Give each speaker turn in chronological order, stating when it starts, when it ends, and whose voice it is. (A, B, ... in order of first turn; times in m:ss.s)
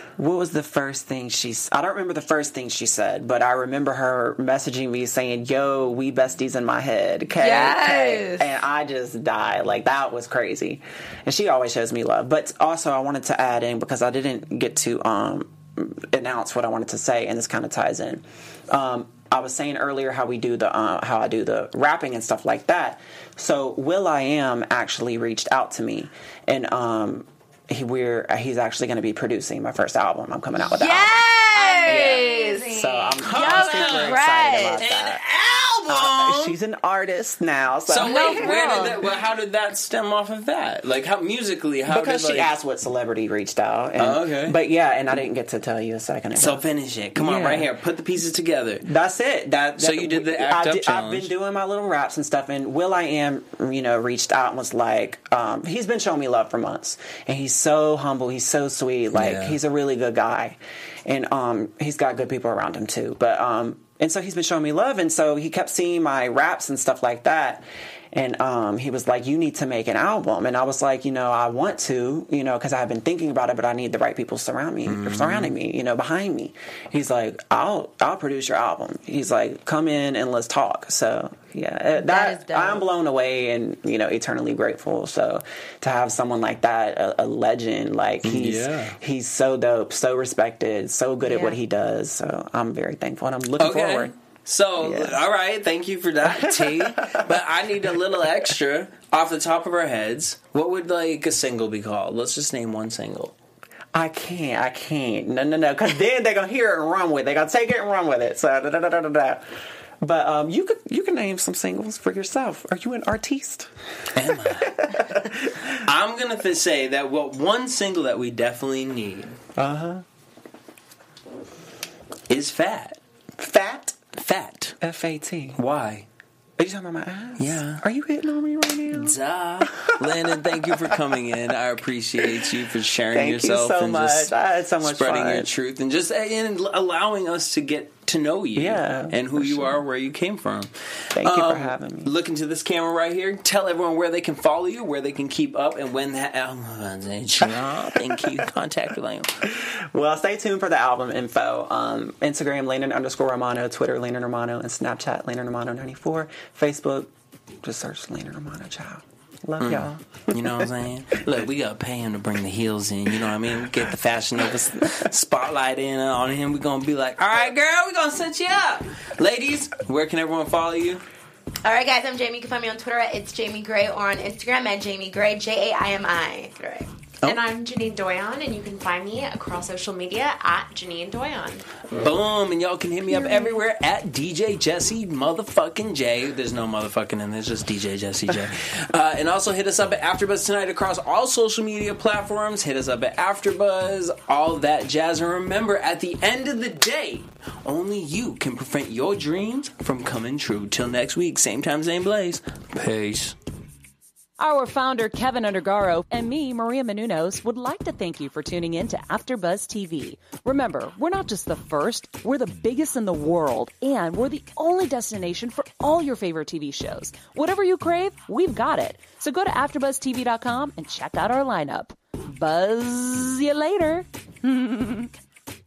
0:00.2-0:31.2 A
0:07.4-0:08.5 B
0:30.6-0:34.8 B
0:31.6-0:33.1 C
0:31.8-0:35.2 A
0:33.2-0:34.2 D
0:34.8-0:36.6 D
0:35.9-0:38.5 A
0:37.8-0:42.5 D
0:38.0-0:39.0 B
0:41.8-0:46.6 A
0:44.0-0:44.6 D
0:46.4-0:48.8 D
0:47.1-0:47.7 A
0:48.8-1:34.1 A
0:49.8-0:51.3 D
0:59.1-0:59.6 D
1:14.8-1:15.5 D
1:22.0-1:22.9 B
1:28.2-1:29.0 D
1:31.2-1:31.6 B
1:33.6-1:43.4 D
1:34.8-1:35.2 A
1:36.3-1:37.4 A
1:43.9-1:49.4 A
1:50.0-1:53.7 A
1:54.1-1:55.0 D
1:54.3-1:55.8 A
1:55.8-1:59.4 D
1:59.6-2:00.0 A
2:02.3-2:03.0 D
2:03.4-2:04.0 A
2:04.1-2:04.8 D
2:04.8-2:05.6 A
2:05.5-2:06.0 D
2:06.6-2:09.2 A
2:07.4-2:07.8 D
2:08.9-2:29.4 D
2:09.8-2:11.0 A
2:13.1-2:15.5 A
2:18.6-2:19.8 A
2:21.1-2:22.1 A
2:29.4-2:37.1 A
2:37.6-2:40.7 A
2:39.6-2:51.0 D
2:51.6-2:56.9 B
2:57.2-3:01.6 C
3:01.9-3:23.4 D
3:24.4-3:45.1 E